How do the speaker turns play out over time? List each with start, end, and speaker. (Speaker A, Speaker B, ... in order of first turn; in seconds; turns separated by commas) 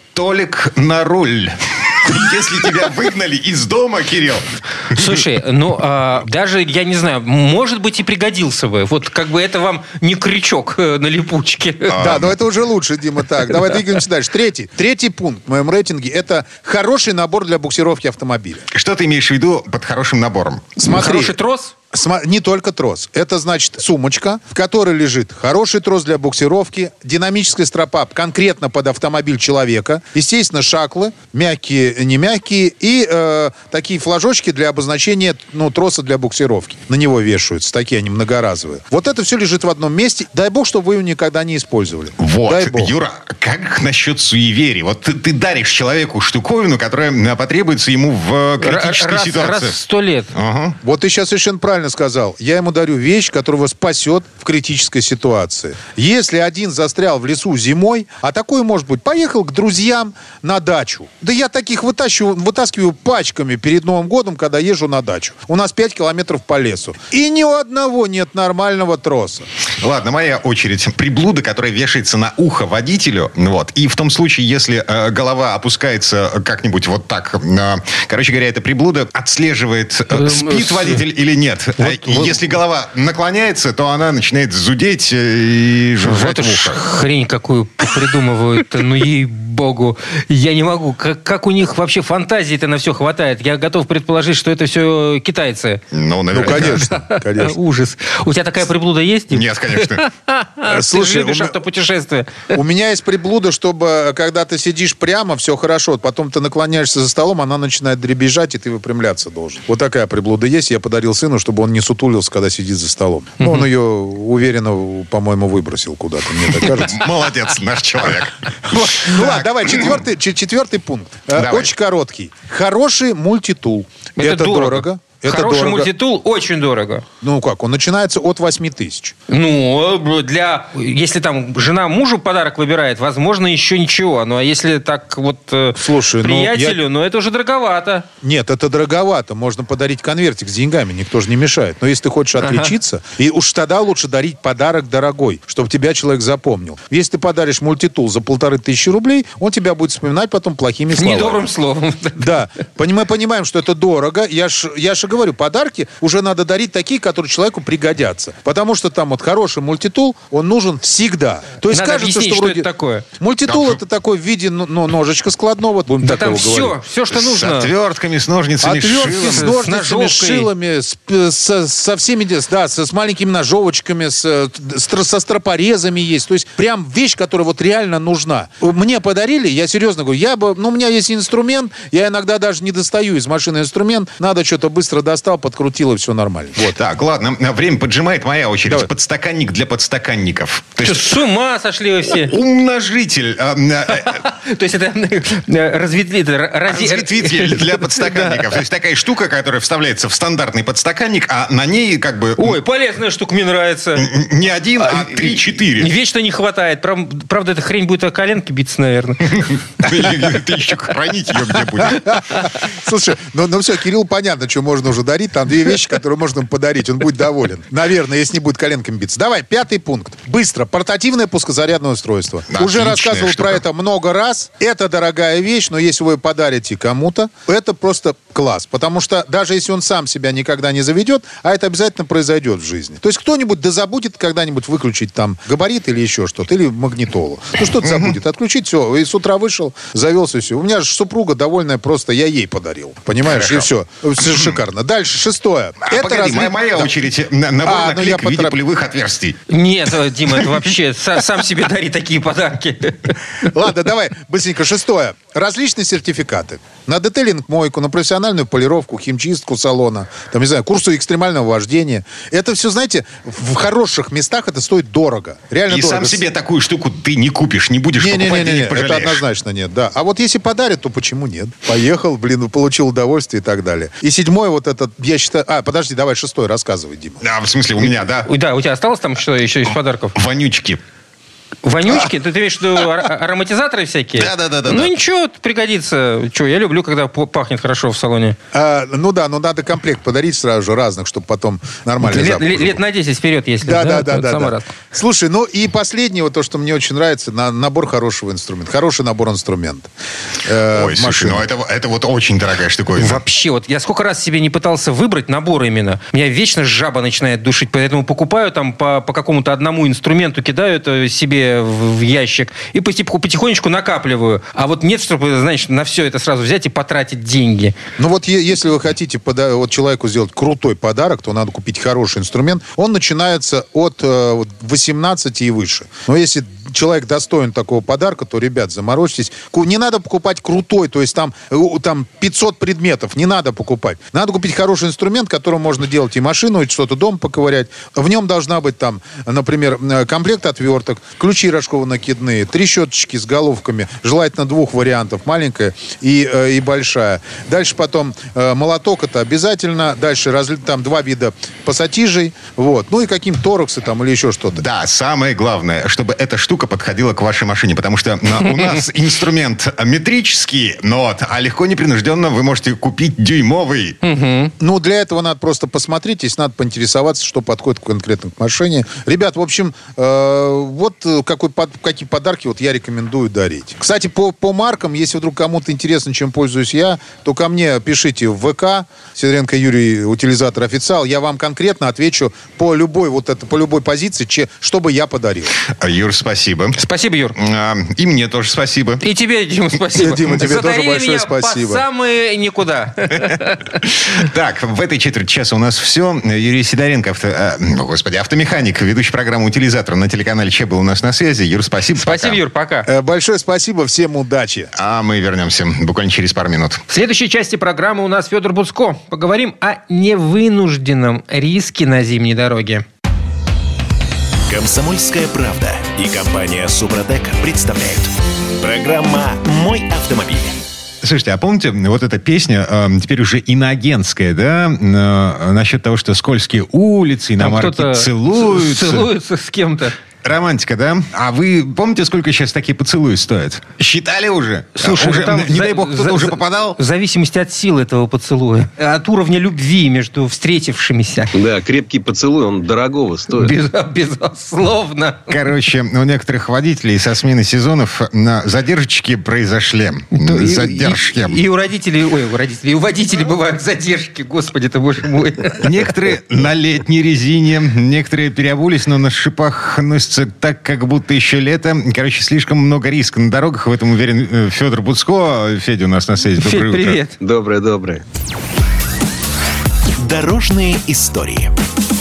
Speaker A: 0.1-5.2, Speaker B: 4.9-12.0, Speaker A: 11.9-12.3, Speaker C: 12.0-18.7, Speaker A: 18.7-20.8, Speaker C: 20.8-21.4, Speaker B: 20.8-21.7, Speaker C: 21.9-43.0, Speaker A: 42.2-49.8, Speaker B: 48.6-50.3, Speaker A: 50.3-50.8, Speaker C: 50.8-69.5, Speaker A: 69.8-86.8, Speaker B: 80.1-81.0, Speaker B: 81.8-82.4, Speaker B: 86.0-95.8, Speaker A: 95.9-96.9, Speaker C: 96.3-97.6, Speaker B: 96.5-102.6, Speaker A: 99.3-100.0, Speaker C: 100.7-101.6, Speaker C: 102.5-117.1, Speaker B: 113.4-113.7, Speaker A: 116.5-120.0, Speaker C: 118.7-125.9, Speaker A: 121.3-121.7, Speaker B: 124.2-127.0, Speaker C: 127.2-129.1, Speaker B: 129.3-138.1, Speaker C: 135.8-136.8, Speaker C: 138.2-151.5, Speaker B: 142.4-142.7, Speaker B: 151.0-152.3, Speaker C: 152.2-162.7, Speaker B: 161.7-163.1, Speaker C: 163.2-166.8, Speaker A: 163.5-163.8, Speaker B: 166.0-167.7, Speaker A: 167.1-169.5, Speaker C: 168.6-186.8, Speaker B: 168.9-170.5, Speaker A: 186.6-191.2, Speaker B: 190.8-192.3, Speaker A: 192.1-194.2, Speaker B: 194.0-198.5, Speaker A: 196.7-202.6, Speaker B: 202.4-204.1, Speaker A: 204.0-205.9, Speaker B: 204.8-209.5, Speaker A: 209.3-212.5, Speaker C: 211.8-247.0, Speaker A: 222.5-223.6, Speaker A: 237.8-238.2, Speaker A: 243.3-243.7, Speaker A: 245.9-249.4, Speaker C: 247.6-248.6, Speaker B: 249.5-253.2, Speaker C: 253.4-266.2, Speaker A: 265.7-269.2, Speaker C: 268.0-277.2, Speaker A: 277.2-278.3, Speaker B: 278.2-280.1, Speaker A: 280.1-280.8, Speaker B: 281.6-288.4, Speaker A: 284.2-284.9, Speaker C: 288.5-292.8, Speaker B: 292.0-294.7, Speaker C: 293.6-299.9, Speaker C: 300.4-301.4, Speaker A: 300.7-303.2, Speaker B: 303.0-317.7, Speaker C: 318.0-354.6, Speaker A: 354.6-364.0, Speaker B: 364.0-364.5, Speaker C: 364.6-385.6, Speaker A: 385.6-386.8, Speaker B: 386.8-387.4, Speaker A: 387.4-389.0, Speaker B: 389.0-393.7, Speaker C: 389.9-391.9, Speaker A: 393.8-402.4, Speaker B: 402.0-402.9, Speaker C: 402.9-404.7, Speaker A: 404.8-406.8, Speaker B: 406.9-412.9, Speaker D: 414.5-420.6, Speaker A: 421.0-429.1, Speaker B: 427.4-430.0, Speaker A: 430.2-436.8, Speaker B: 434.8-441.3, Speaker E: 441.3-443.5, Speaker B: 443.3-445.3, Speaker A: 445.3-451.4, Speaker B: 450.1-455.9, Speaker A: 455.6-467.0, Speaker B: 466.4-467.2, Speaker E: 467.2-468.0, Speaker D: 470.0-471.5